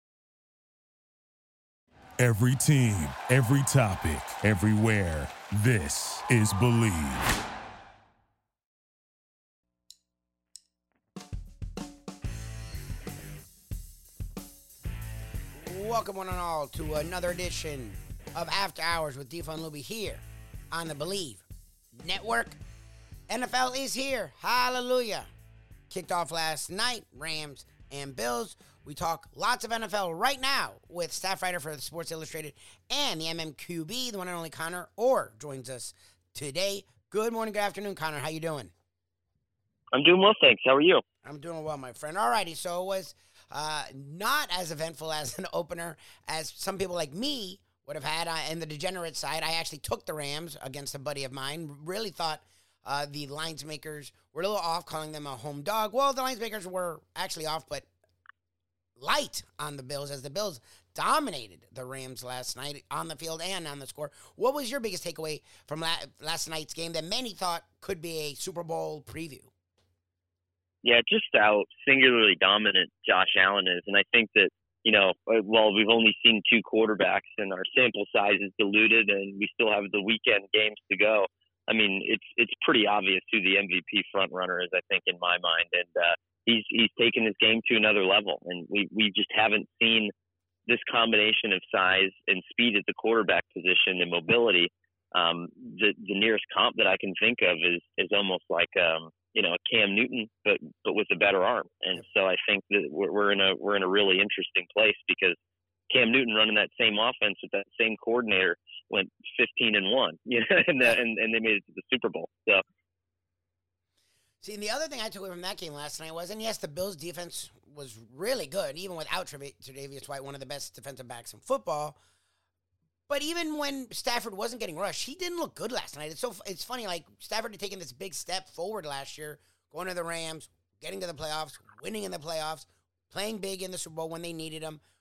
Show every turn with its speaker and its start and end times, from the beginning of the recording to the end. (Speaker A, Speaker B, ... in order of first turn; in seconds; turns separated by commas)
Speaker A: 2.2-7.3, Speaker B: 15.6-21.4, Speaker B: 22.0-22.6, Speaker B: 23.3-25.3, Speaker B: 25.9-38.7, Speaker C: 39.9-41.0, Speaker B: 41.2-57.9, Speaker B: 59.0-69.5, Speaker C: 70.8-90.1, Speaker C: 90.7-105.4, Speaker C: 105.9-112.6, Speaker B: 114.4-122.0, Speaker B: 123.1-134.8